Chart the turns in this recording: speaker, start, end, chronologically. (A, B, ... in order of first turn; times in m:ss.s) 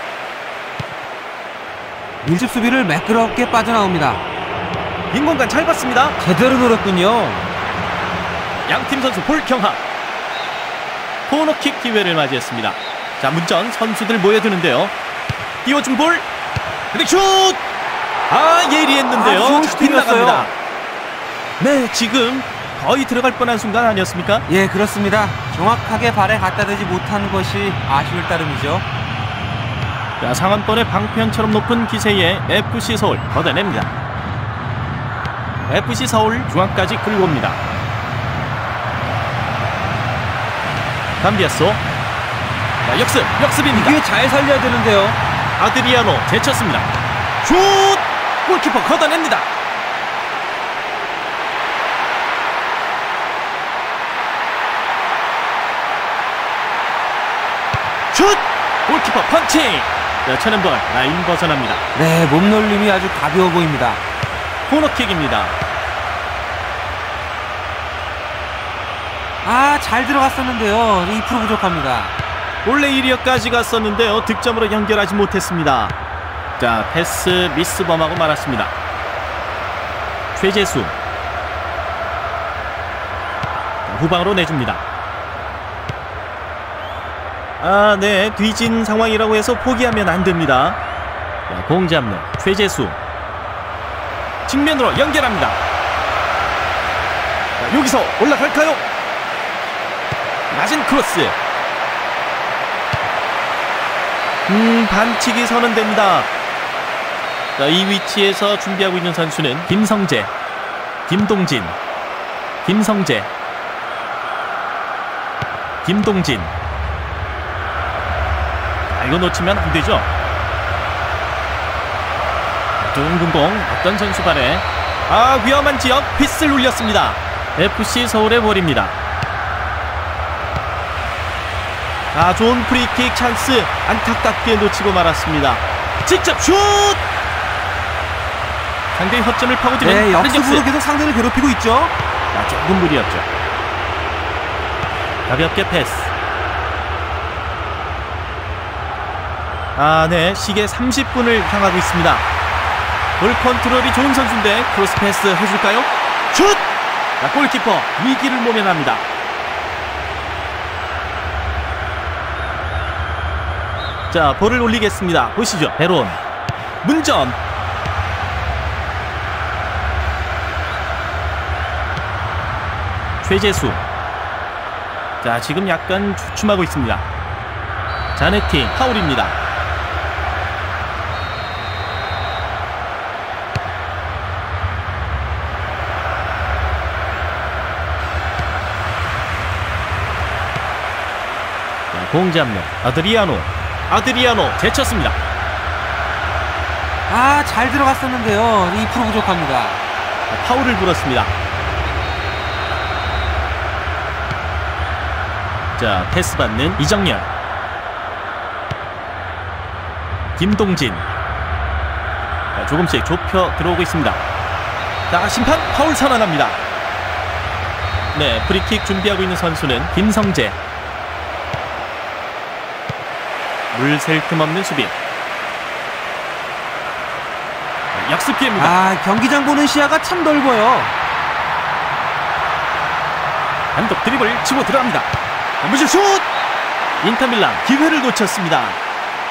0:02.2-0:04.2 A
0:05.1-0:06.2 B
0:06.2-0:07.5 A
0:08.7-0:09.8 B
0:11.3-0:14.9 B
0:15.6-0:16.3 B
0:16.9-0:17.6 B
0:18.3-0:20.5 B
0:19.1-0:20.5 A
0:21.6-0:24.4 B
0:24.5-0:28.8 A
0:30.2-0:33.9 B
0:35.7-0:37.6 B
0:41.2-0:41.8 B
0:42.8-0:44.0 B
0:43.7-0:45.2 A
0:45.6-0:46.9 B
0:47.4-0:49.5 B
0:58.1-1:01.8 B
1:02.0-1:04.0 A
1:04.7-1:05.6 B
1:09.4-1:12.2 A
1:12.6-1:16.0 B
1:16.6-1:18.7 B
1:20.4-1:21.0 B
1:23.9-1:24.8 B
1:27.6-1:30.8 B
1:31.5-1:33.0 B
1:34.5-1:35.6 B
1:37.6-1:38.8 B
1:40.5-1:41.4 B
1:44.5-1:46.3 B
1:47.6-1:50.3 B
1:51.1-1:51.8 B
1:52.6-1:53.3 B
1:55.8-1:56.5 B
1:58.9-2:00.1 B
2:02.8-2:09.0 B
2:12.1-2:17.0 B
2:19.0-2:20.7 B
2:19.8-2:21.9 A
2:22.3-2:23.3 B
2:25.3-2:26.1 B
2:29.8-2:32.3 B
2:33.2-2:36.7 B
2:37.2-2:39.0 B
2:44.1-2:46.2 B
2:46.8-2:47.4 B
2:53.2-2:53.8 B
2:55.2-2:57.1 B
2:58.2-2:59.4 B
3:11.9-3:15.2 B
3:17.1-3:19.8 A
3:20.3-3:21.3 B
3:25.8-3:27.3 B
3:30.4-3:31.1 B
3:32.6-3:34.2 B
3:35.1-3:36.6 B
3:38.1-3:40.6 B
3:43.7-3:45.0 B
3:47.9-3:48.8 B
3:48.6-3:50.9 A
3:53.8-3:55.1 B
3:55.6-3:56.3 B
3:57.0-3:58.8 B